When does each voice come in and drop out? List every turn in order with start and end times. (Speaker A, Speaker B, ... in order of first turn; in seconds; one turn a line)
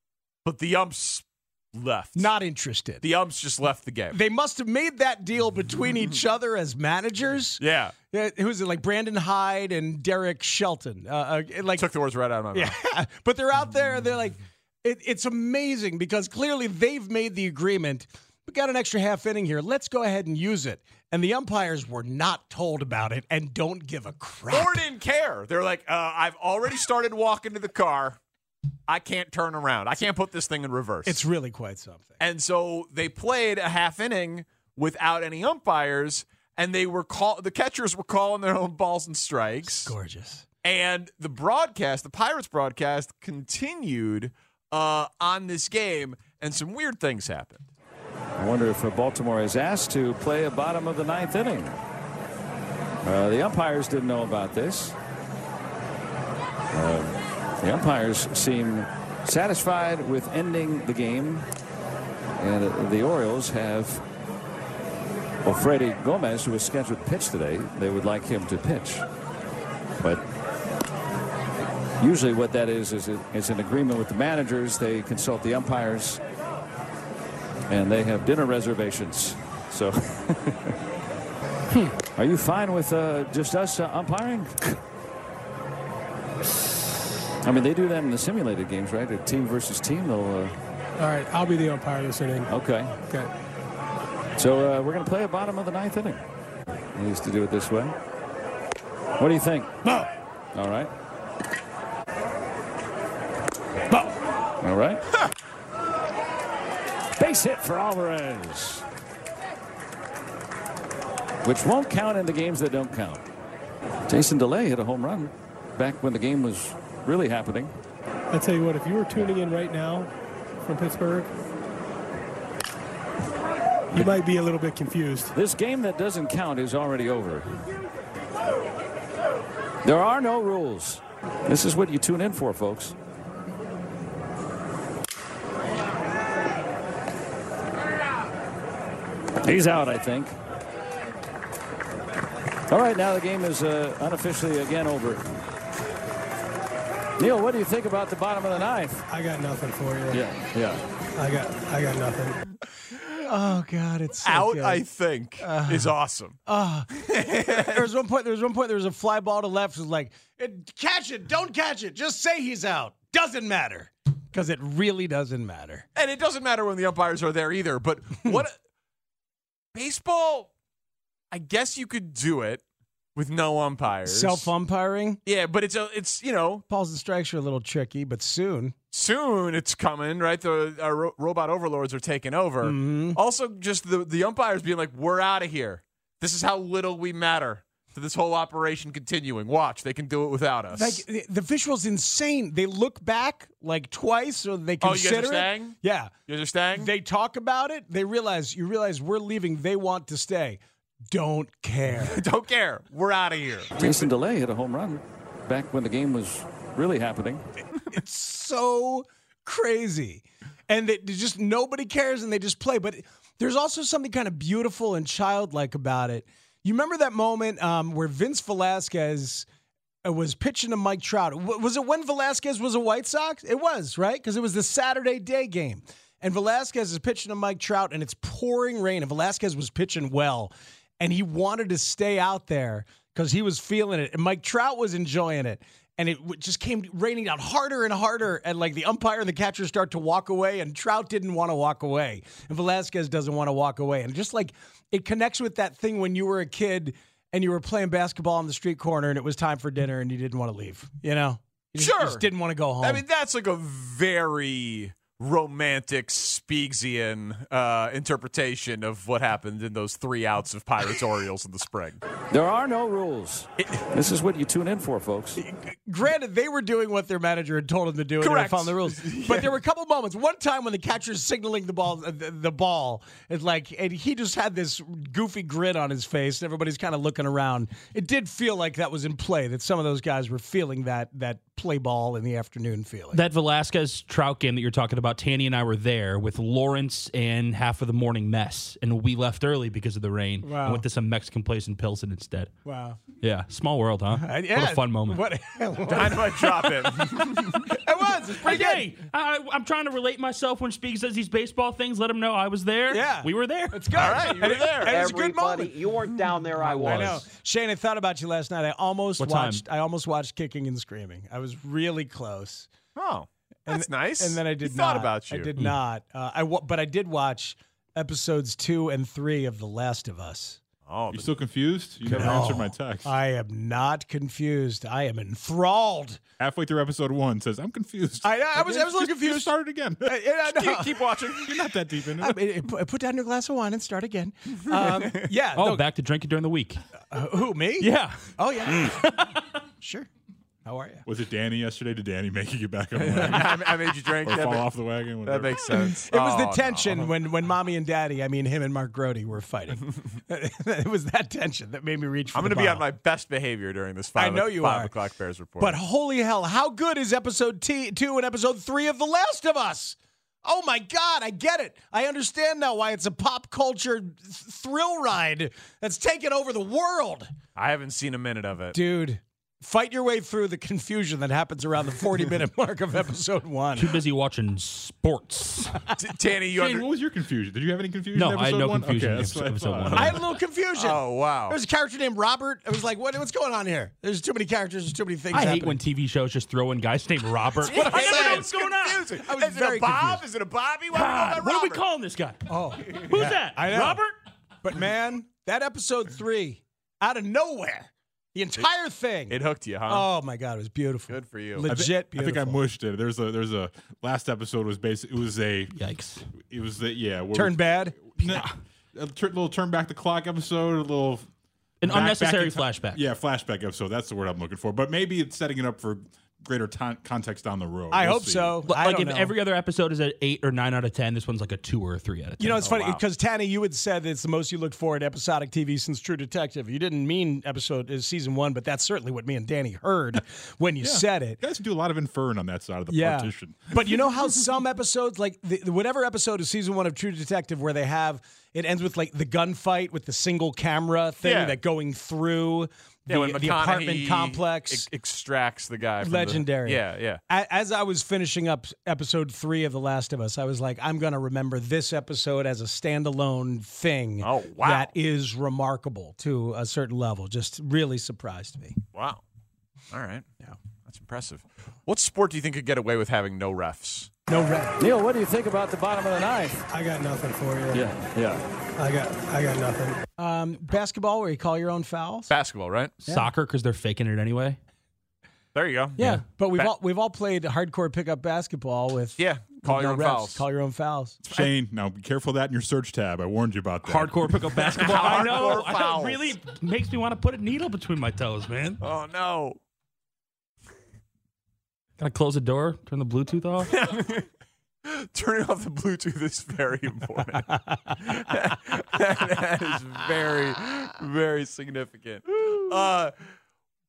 Speaker A: 0.4-2.3
Speaker B: 2.1-3.0
Speaker A: 3.0-4.2
Speaker B: 4.1-11.9
Speaker A: 7.6-7.9
Speaker A: 11.7-12.8
Speaker B: 12.5-24.8
Speaker A: 24.5-28.2
Speaker A: 28.9-31.2
Speaker B: 31.0-32.1
Speaker A: 32.2-39.9
Speaker B: 39.6-40.5
Speaker A: 40.6-47.6
Speaker C: 48.4-51.8
Speaker C: 53.0-55.0
Speaker C: 56.7-61.5
Speaker C: 62.4-64.0
Speaker C: 65.4-69.0
Speaker C: 72.0-76.2
Speaker C: 77.7-80.8
Speaker C: 82.1-84.8
Speaker C: 87.4-90.5
Speaker D: 91.0-92.5
Speaker C: 92.5-92.9
Speaker C: 94.4-96.2
Speaker C: 96.9-98.0
Speaker C: 99.2-99.8
Speaker C: 100.5-100.9
Speaker C: 104.6-105.1
Speaker C: 107.2-108.8
Speaker C: 111.4-113.2
Speaker C: 114.1-117.7
Speaker D: 118.3-120.0
Speaker D: 120.7-121.2
Speaker D: 123.9-125.3
Speaker C: 125.3-127.6
Speaker C: 129.8-133.0
Speaker C: 139.4-140.3
Speaker C: 142.7-145.2
Speaker C: 147.2-149.1
Speaker D: 149.1-150.2
Speaker C: 150.1-150.8
Speaker D: 151.2-152.4
Speaker B: 153.2-154.8
Speaker A: 154.2-156.4
Speaker B: 155.4-155.9
Speaker B: 156.4-165.8
Speaker A: 157.1-157.8
Speaker A: 165.9-168.5
Speaker A: 169.7-170.5
Speaker A: 171.3-172.6
Speaker A: 173.1-174.5
Speaker B: 174.0-175.2
Speaker A: 175.2-176.6
Speaker B: 176.7-178.7
Speaker A: 178.9-191.0
Speaker B: 182.6-183.2
Speaker B: 190.7-196.1
Speaker A: 194.8-196.9
Speaker B: 196.7-200.6
Speaker B: 201.1-202.2
Speaker A: 202.0-204.1
Speaker C: 203.7-207.4
Speaker B: 207.8-219.4
Speaker B: 220.0-253.0
Speaker A: 251.8-262.0
Speaker C: 262.3-265.4
Speaker B: 265.4-283.2
Speaker A: 268.2-269.6
Speaker E: 283.1-292.5
Speaker B: 290.4-290.9
Speaker B: 292.6-293.0
Speaker E: 293.1-295.2
Speaker B: 294.1-298.9
Speaker A: 295.9-297.6
Speaker E: 298.4-304.5
Speaker B: 302.9-305.8
Speaker A: 303.9-305.1
Speaker F: 304.6-307.2
Speaker A: 306.1-306.9
Speaker B: 306.7-312.7
Speaker E: 306.9-307.2
Speaker E: 309.2-309.6
Speaker A: 312.9-315.5
Speaker B: 313.7-320.6
Speaker A: 320.9-321.3
Speaker G: 321.1-323.1
Speaker B: 322.0-326.2
Speaker G: 326.4-330.1
Speaker B: 328.2-335.8
Speaker A: 330.4-331.5
Speaker G: 331.3-332.4
Speaker A: 334.7-335.3
Speaker E: 335.5-336.8
Speaker B: 337.1-340.1
Speaker E: 337.8-339.1
Speaker B: 340.6-341.1
Speaker G: 341.1-345.9
Speaker A: 342.9-344.7
Speaker A: 345.2-347.1
Speaker B: 345.7-352.9
Speaker A: 352.3-355.8
Speaker B: 354.1-354.9
Speaker B: 355.6-367.3
Speaker A: 367.5-368.8
Speaker B: 368.7-374.0
Speaker E: 373.8-375.8
Speaker A: 376.0-376.9
Speaker G: 376.5-380.2
Speaker E: 378.1-380.1
Speaker A: 379.9-380.2
Speaker B: 379.9-385.8
Speaker A: 380.7-381.6
Speaker E: 385.3-389.1
Speaker A: 387.6-391.8
Speaker B: 387.6-388.5
Speaker B: 389.1-390.3
Speaker E: 390.9-394.1
Speaker B: 392.5-394.0
Speaker B: 394.6-402.6
Speaker A: 399.3-400.1
Speaker A: 401.1-401.7
Speaker G: 401.7-405.7
Speaker E: 405.7-406.3
Speaker G: 406.3-411.3
Speaker B: 407.3-408.3
Speaker E: 411.8-413.0
Speaker G: 411.8-418.6
Speaker B: 417.9-419.4
Speaker E: 418.6-423.0
Speaker B: 422.4-431.4
Speaker G: 430.8-433.9
Speaker B: 432.9-444.9
Speaker A: 441.2-441.6
Speaker A: 443.1-447.2
Speaker B: 446.0-458.8
Speaker A: 454.2-454.9
Speaker A: 458.9-459.2
Speaker A: 459.9-460.2
Speaker A: 460.8-464.1
Speaker B: 464.3-464.8
Speaker C: 464.8-466.7
Speaker D: 466.7-467.9
Speaker C: 467.7-468.5
Speaker D: 468.8-470.0
Speaker B: 470.2-472.3
Speaker A: 472.3-472.9
Speaker E: 473.0-474.6
Speaker A: 475.5-476.0
Speaker E: 476.0-476.2
Speaker B: 476.0-481.2
Speaker A: 479.2-480.4
Speaker G: 481.3-484.3
Speaker E: 483.8-488.8
Speaker A: 484.6-486.4
Speaker A: 488.8-489.6
Speaker E: 492.0-493.7
Speaker A: 493.6-494.2
Speaker A: 494.9-503.1